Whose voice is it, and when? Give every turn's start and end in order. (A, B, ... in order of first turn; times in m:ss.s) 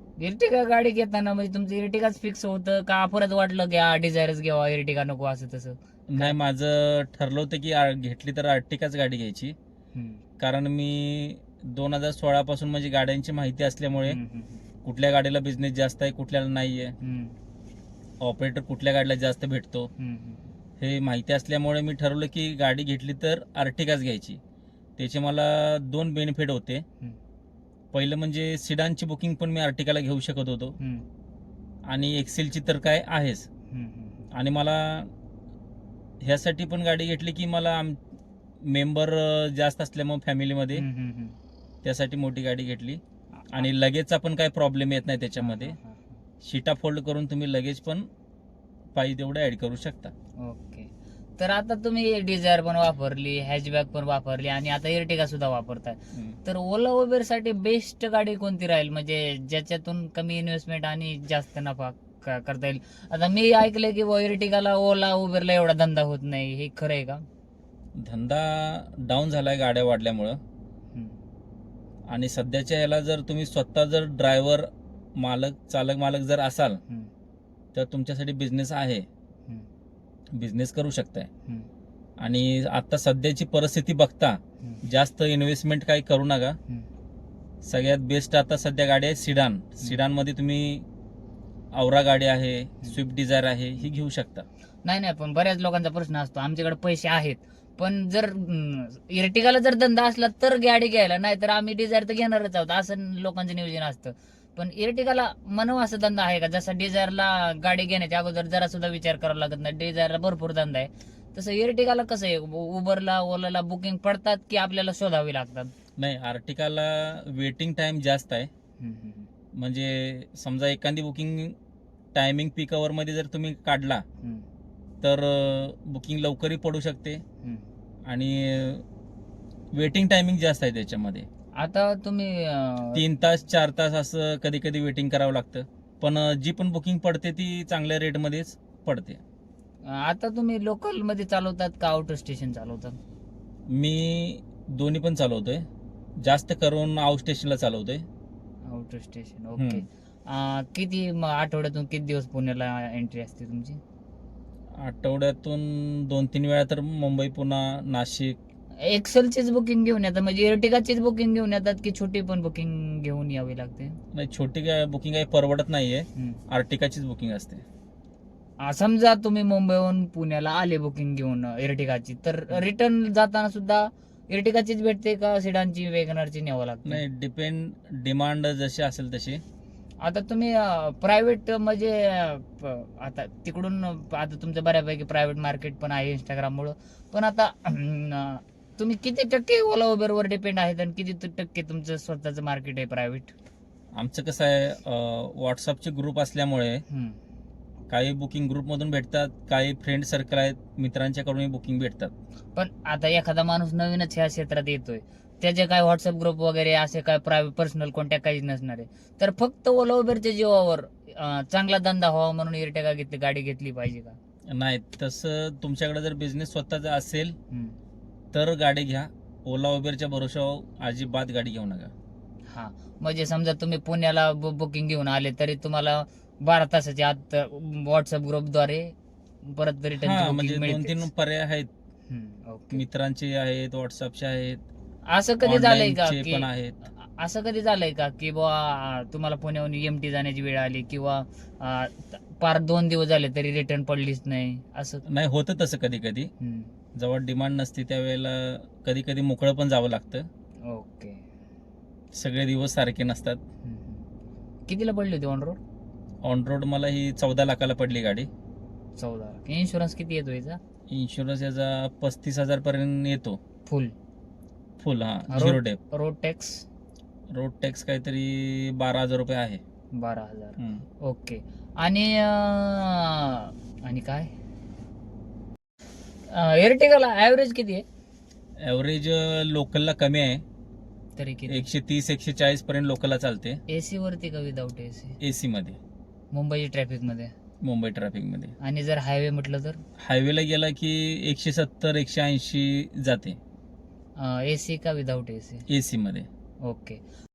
0:00.2-0:06.3 A
0:06.1-0:09.5 B
0:09.9-0:10.2 A
0:10.4-0:14.2 B
0:14.0-0:14.6 A
0:14.8-0:17.0 B
0:17.0-0:17.3 A
0:18.2-0:19.9 B
0:20.0-0:20.5 A
0:20.8-0:24.4 B
0:25.0-0:26.8 B
0:27.9-0:30.7 B
0:30.8-0:31.0 A
0:31.9-0:33.5 B
0:33.7-0:34.3 A
0:34.3-0:35.1 B
0:36.2-0:38.0 B
0:38.6-0:40.8 B
0:40.7-0:41.4 A
0:41.8-0:45.8 B
0:43.3-0:43.6 A
0:45.4-0:46.2 A
0:46.4-0:48.1 B
0:48.9-0:50.1 B
0:50.4-1:07.2 A
1:08.0-1:10.4 B
1:12.1-1:16.8 B
1:17.7-1:19.0 B
1:20.3-1:21.3 B
1:22.2-1:26.6 B
1:27.6-1:30.8 B
1:31.7-1:34.4 B
1:34.8-1:55.7 A
1:56.0-1:58.5 B
1:58.8-1:59.3 A
1:59.5-2:01.6 B
2:02.1-2:04.0 B
2:05.0-2:07.2 B
2:08.1-2:08.8 B
2:09.7-2:11.3 B
2:11.6-2:13.0 A
2:12.9-2:19.2 B
2:19.8-2:23.0 A
2:23.7-2:25.6 B
2:26.2-2:28.0 B
2:28.7-2:33.8 A
2:29.6-2:29.8 B
2:34.8-2:38.4 B
2:38.8-2:44.0 A
2:44.1-2:47.6 B
2:48.6-2:57.0 A
2:56.8-2:59.4 B
3:00.0-3:13.3 A
3:13.9-3:16.8 B
3:16.9-3:17.2 A
3:17.9-3:22.1 B
3:22.6-3:34.2 A
3:34.5-3:37.4 B
3:37.5-3:37.8 A
3:38.3-3:41.9 B
3:42.5-3:51.1 A
3:50.0-3:51.7 B
3:52.1-3:52.8 A
3:52.7-3:54.6 B
3:55.0-4:05.0 A
3:55.4-3:56.8 B
4:05.0-4:06.3 B
4:06.4-4:06.7 A
4:06.9-4:10.3 B
4:10.6-4:11.2 A
4:12.1-4:13.4 B
4:13.6-4:14.0 A
4:14.7-4:15.6 A
4:16.2-4:18.3 B
4:19.0-4:20.6 A
4:20.9-4:23.4 B
4:23.6-4:23.9 A
4:24.8-4:25.8 B
4:25.3-4:26.6 A
4:27.3-4:29.6 B
4:29.9-4:34.3 A
4:30.6-4:30.8 B
4:36.3-4:37.8 A
4:38.6-4:40.4 B
4:41.2-4:41.7 A
4:41.5-4:43.6 B
4:43.7-4:45.2 A
4:45.2-4:45.8 B
4:46.3-4:47.3 A
4:47.6-4:48.5 B
4:48.6-4:49.8 A
4:50.0-4:53.4 B
4:54.2-4:55.6 A
4:55.7-4:56.3 B
4:56.6-4:57.0 A